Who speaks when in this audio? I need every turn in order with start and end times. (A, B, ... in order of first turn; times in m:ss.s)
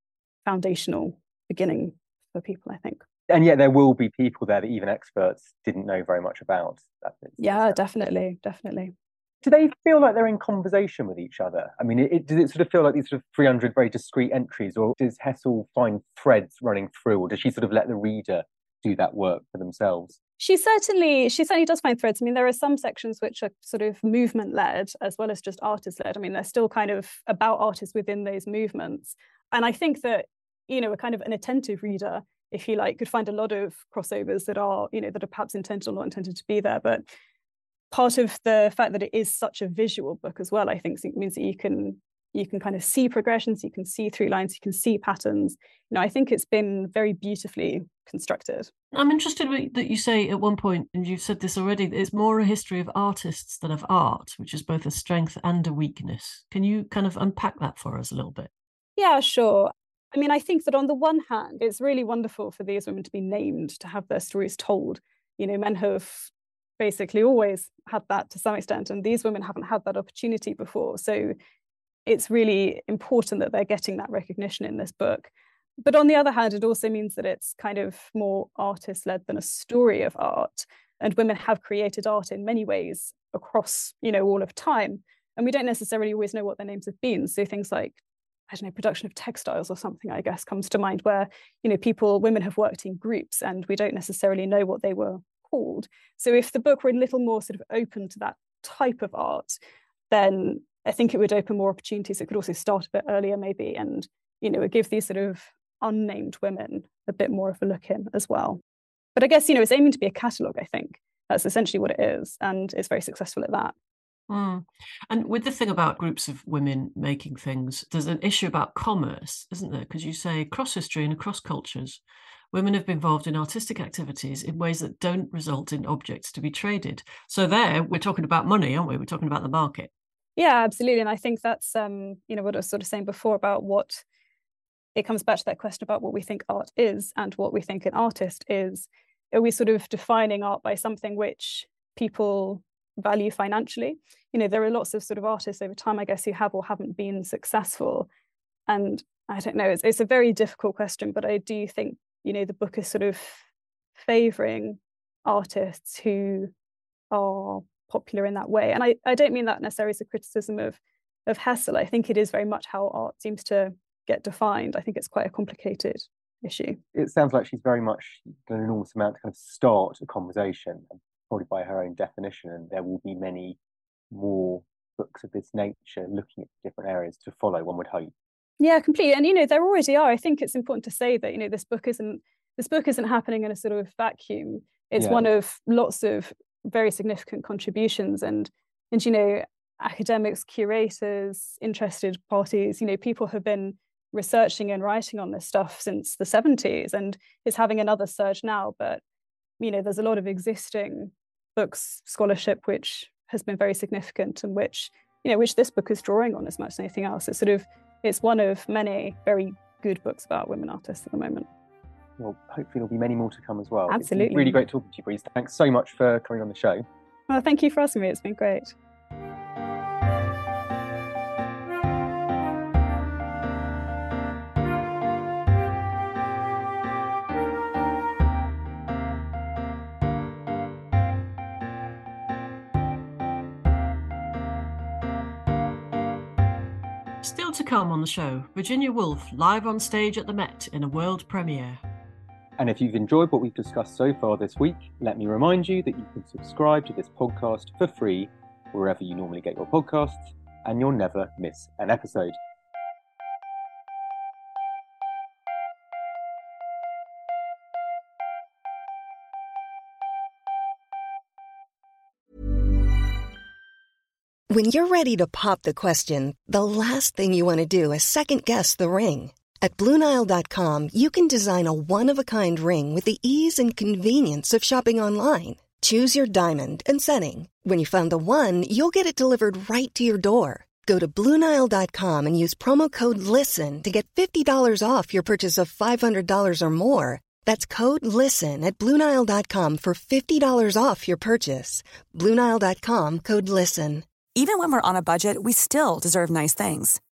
0:00.4-0:03.0 A
0:03.3-0:07.8 B
0:07.4-0:08.9 A
0:09.4-0:20.2 B
0:20.4-0:37.0 A
0:37.9-0:48.7 A
0:48.9-0:58.5 C
0:59.0-1:11.3 A
1:12.0-1:39.6 A
1:40.1-1:48.6 A
1:49.2-1:53.7 A
1:54.3-2:02.0 C
2:02.5-2:09.9 C
2:10.4-2:14.0 A
2:15.0-2:28.1 A
2:28.7-2:33.4 A
2:34.0-2:36.5 A
2:37.1-2:46.8 A
2:46.9-2:53.6 B
2:54.1-2:58.1 B
2:58.6-3:19.0 A
3:05.0-3:05.2 B
3:19.6-3:31.5 A
3:32.2-3:36.8 B
3:33.9-3:34.6 A
3:37.3-3:38.7 A
3:57.2-4:01.8 C
4:02.6-4:12.4 B
4:24.5-4:54.0 D
4:54.3-4:57.0 E